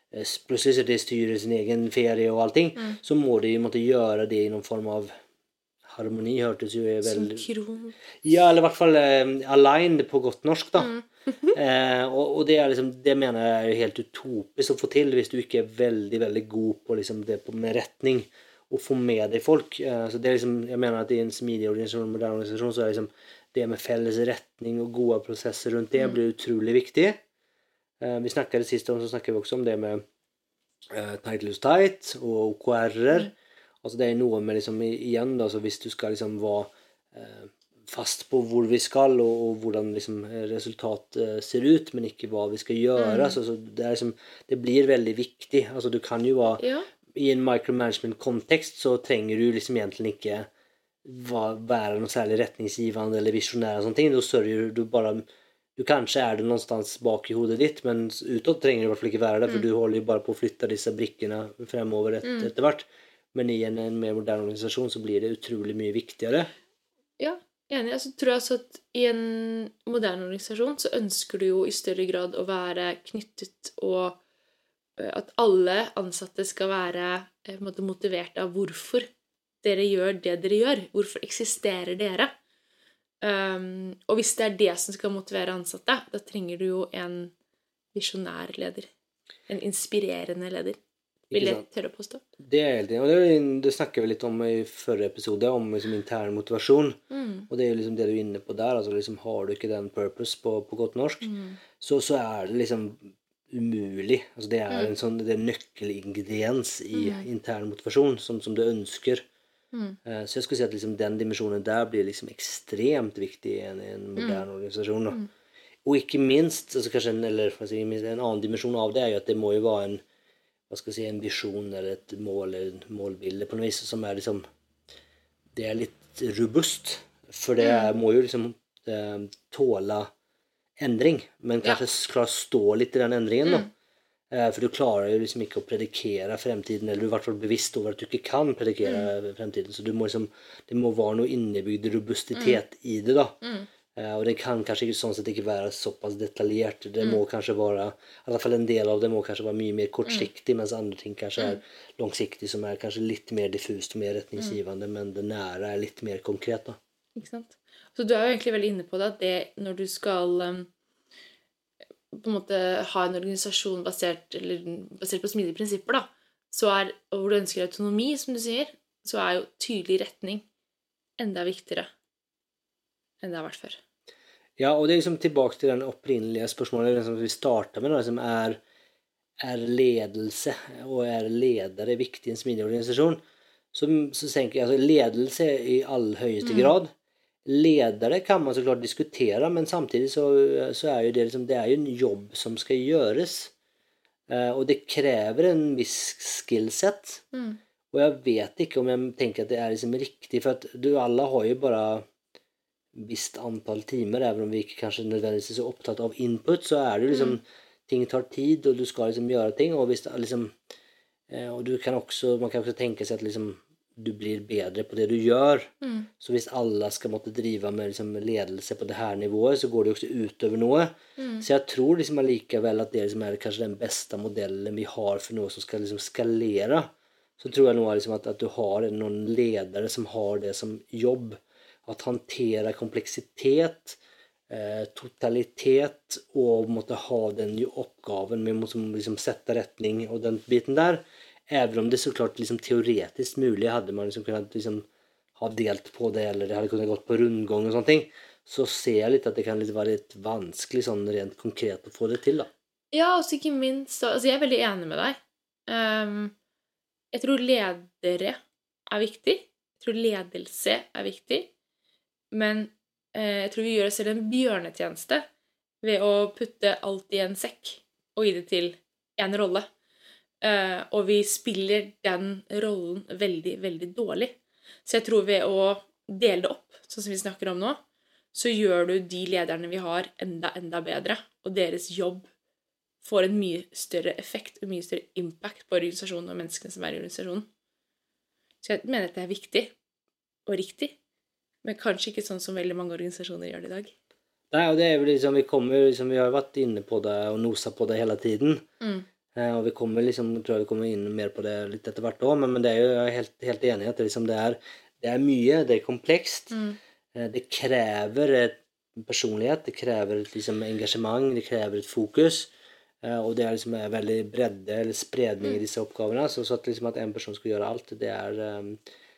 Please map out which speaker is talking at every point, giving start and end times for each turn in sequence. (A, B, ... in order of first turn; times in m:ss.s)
0:00.1-0:05.1 A
0:05.9-0:07.4 A
0:07.0-0:08.0 B
0:08.2-0:10.9 A
0:10.8-0:11.6 B
0:11.5-0:27.2 A
0:28.0-0:30.0 A
0:30.9-0:46.6 A
0:43.0-0:43.4 B
0:46.6-0:46.9 B
0:47.1-0:50.5 A
0:51.0-0:55.2 A
0:55.8-1:06.5 A
1:02.2-1:02.5 B
1:07.2-1:14.2 B
1:15.0-1:19.1 B
1:19.6-1:22.3 B
1:23.2-1:27.3 B
1:27.9-1:28.9 B
1:29.5-1:30.8 B
1:31.3-1:31.6 A
1:31.3-1:32.2 B
1:32.4-1:41.3 A
1:37.1-1:37.5 B
1:41.2-1:41.6 B
1:41.8-1:49.3 A
1:46.9-1:47.3 B
1:50.1-1:55.2 A
1:54.2-1:54.4 B
1:55.8-2:00.0 A
2:00.7-2:04.4 A
2:05.5-2:10.1 A
2:07.6-2:07.9 B
2:10.8-2:13.7 A
2:13.4-2:13.7 B
2:14.3-2:23.4 A
2:23.4-2:23.7 B
2:24.0-2:36.8 A
2:37.2-2:40.7 B
2:42.1-2:50.4 B
2:51.2-2:51.9 B
2:53.2-2:53.8 B
2:54.6-2:58.6 A
2:59.4-3:03.2 A
3:03.7-3:06.9 A
3:06.4-3:06.7 B
3:07.4-3:13.5 A
3:14.3-3:17.2 A
3:17.3-3:17.6 B
3:17.9-3:22.1 A
3:22.9-3:30.6 A
3:31.3-4:04.9 A
3:35.8-3:36.1 B
3:41.2-3:41.4 B
4:05.4-4:12.5 A
4:12.9-4:16.3 B
4:17.1-4:21.5 B
4:22.3-4:25.3 B
4:25.8-4:29.7 B
4:30.4-4:37.8 B
4:38.3-4:42.3 B
4:43.0-4:47.5 B
4:48.6-4:49.7 B
4:50.5-4:51.0 B
4:51.6-4:53.9 B
4:54.5-4:58.7 A
4:59.4-5:06.6 A
5:06.5-5:06.8 B
5:07.1-5:12.5 A
5:13.0-5:18.8 A